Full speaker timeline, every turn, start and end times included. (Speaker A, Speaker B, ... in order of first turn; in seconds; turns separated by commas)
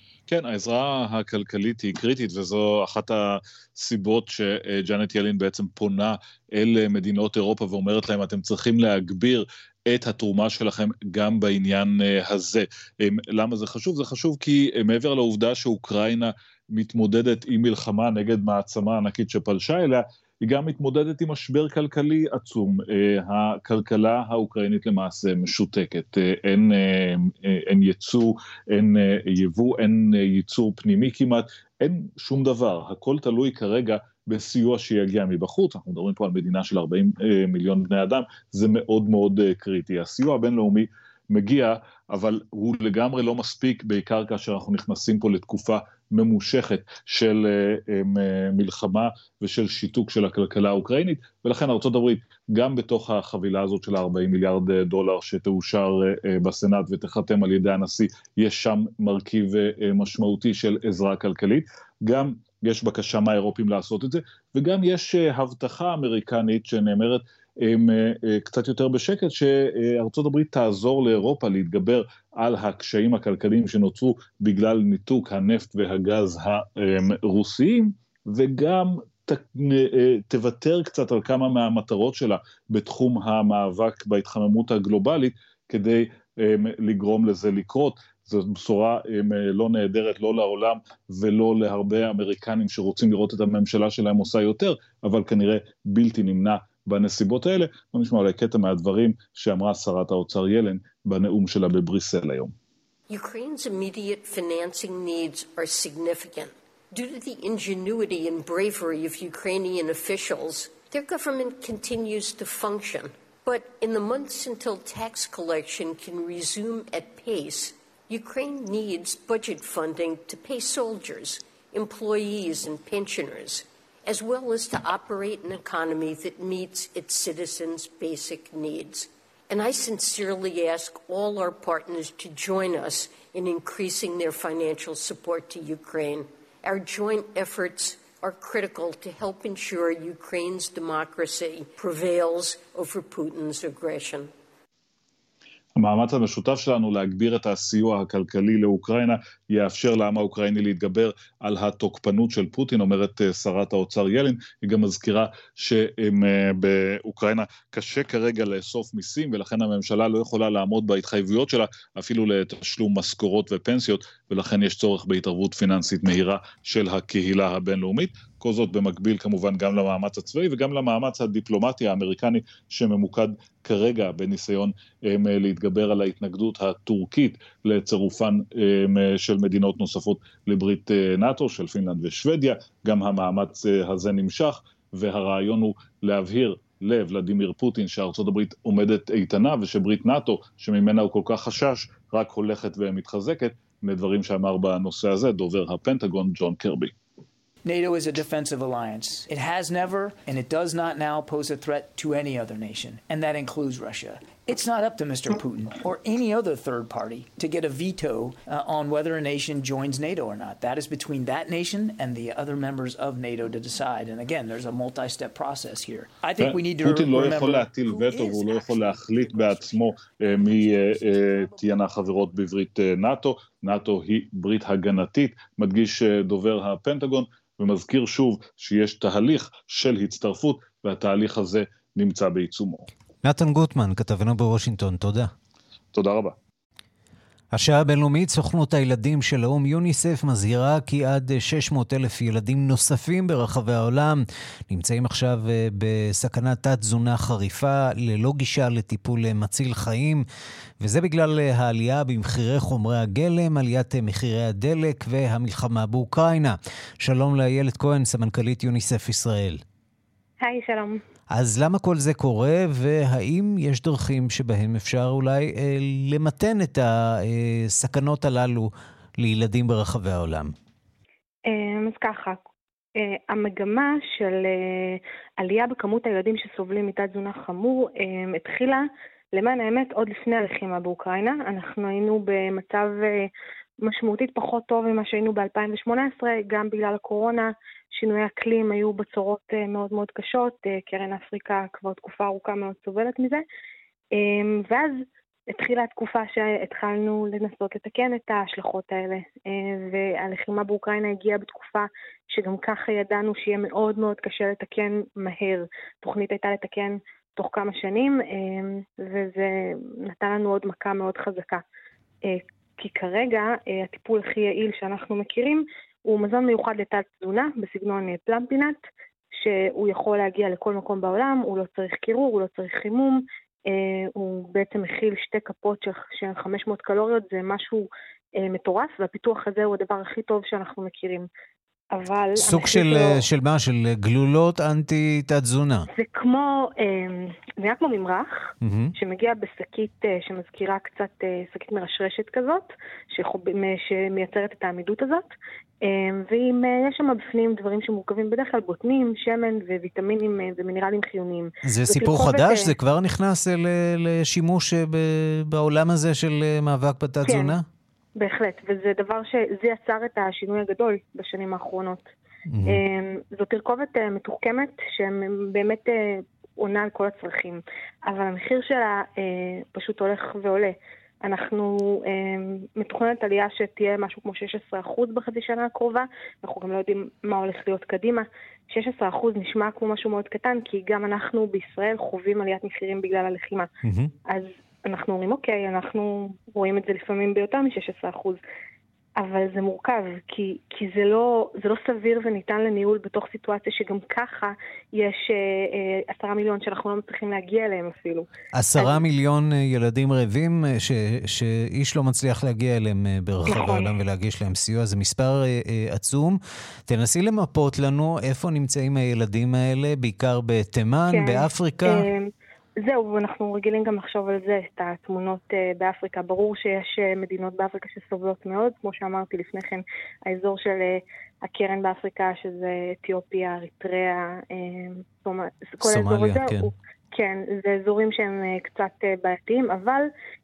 Speaker A: 0.3-102.5, Speaker B: 103.1-144.3, Speaker A: 145.8-196.9, Speaker C: 197.7-221.8, Speaker A: 216.4-232.9, Speaker D: 233.2-235.3, Speaker A: 235.9-236.3, Speaker D: 237.5-250.2, Speaker D: 250.8-259.6, Speaker E: 260.4-261.0, Speaker D: 261.3-270.5, Speaker E: 271.5-272.4, Speaker E: 273.0-283.3, Speaker E: 283.8-293.4, Speaker E: 294.1-311.6, Speaker E: 312.2-318.8, Speaker E: 319.4-331.3, Speaker E: 331.9-333.2, Speaker D: 332.4-335.9, Speaker E: 335.9-345.2, Speaker D: 338.6-338.9, Speaker E: 345.8-352.7, Speaker D: 351.6-357.6, Speaker E: 357.2-357.6, Speaker E: 358.2-362.1, Speaker D: 362.5-362.8, Speaker E: 362.7-383.7, Speaker D: 383.8-384.1, Speaker E: 384.3-388.4, Speaker E: 389.2-399.0, Speaker D: 398.5-412.1, Speaker E: 403.4-403.9, Speaker E: 411.1-412.3, Speaker E: 412.8-430.1, Speaker D: 425.8-426.7